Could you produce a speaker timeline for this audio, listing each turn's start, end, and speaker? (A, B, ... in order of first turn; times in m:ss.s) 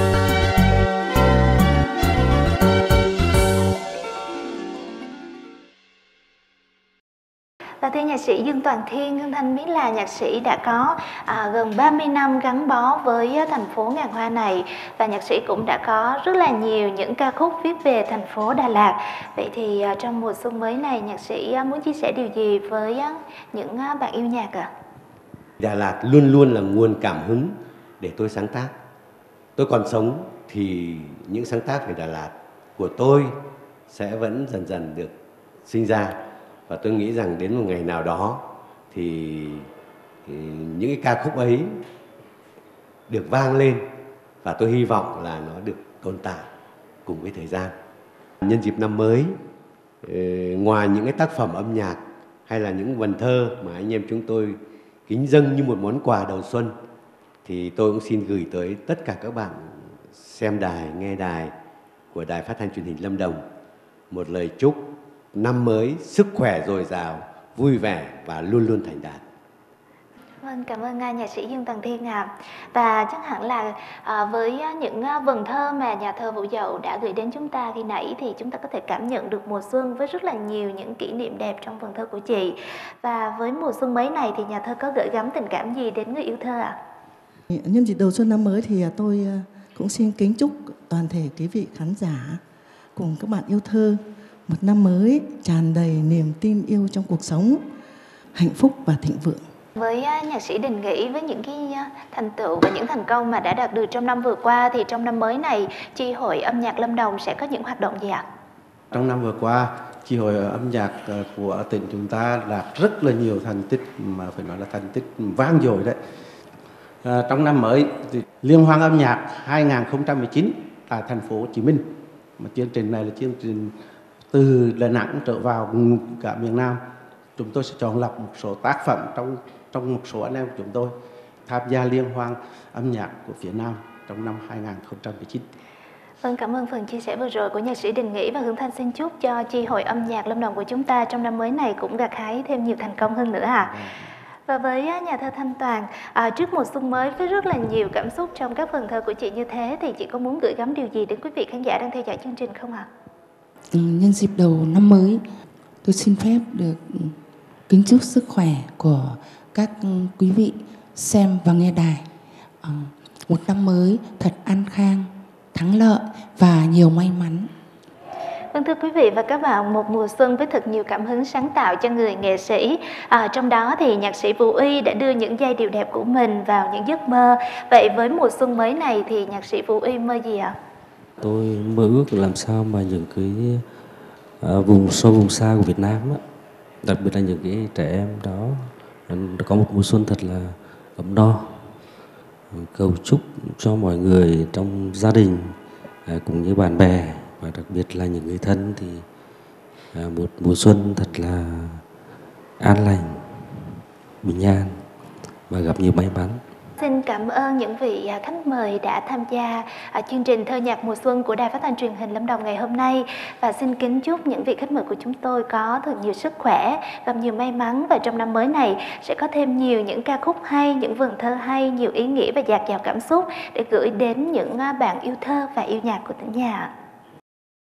0:07.8-0:24.7 A
0:25.6-0:28.7 B
0:29.6-0:33.4 B
0:33.9-0:35.1 B
0:35.6-0:39.7 B
0:40.2-0:41.8 B
0:43.1-0:43.8 B
0:44.4-0:46.5 B
0:47.0-0:47.7 B
0:48.4-0:49.4 B
0:50.0-0:56.7 B
0:57.4-1:01.5 B
1:02.1-1:03.4 B
1:04.1-1:09.2 B
1:10.4-1:26.8 A
1:27.5-1:32.4 C
1:32.9-1:37.6 C
1:38.3-1:39.4 C
1:39.8-1:48.2 A
1:48.9-1:56.0 D
1:57.0-2:01.8 D
2:02.4-2:03.7 D
2:04.3-2:06.8 D
2:07.4-2:10.9 D
2:11.4-2:15.4 D
2:16.2-2:23.7 A
2:24.5-2:32.9 A
2:33.7-2:35.2 E
2:35.8-2:37.1 E
2:37.7-2:42.0 E
2:42.6-2:47.5 E
2:48.5-3:00.5 A
3:01.2-3:03.6 F
3:04.4-3:06.2 F
3:06.8-3:11.6 F
3:12.5-3:15.5 F
3:16.0-3:19.0 F
3:19.9-3:21.8 F
3:22.6-3:23.5 F
3:24.2-3:24.7 F
3:25.5-3:26.4 F
3:26.8-3:46.7 A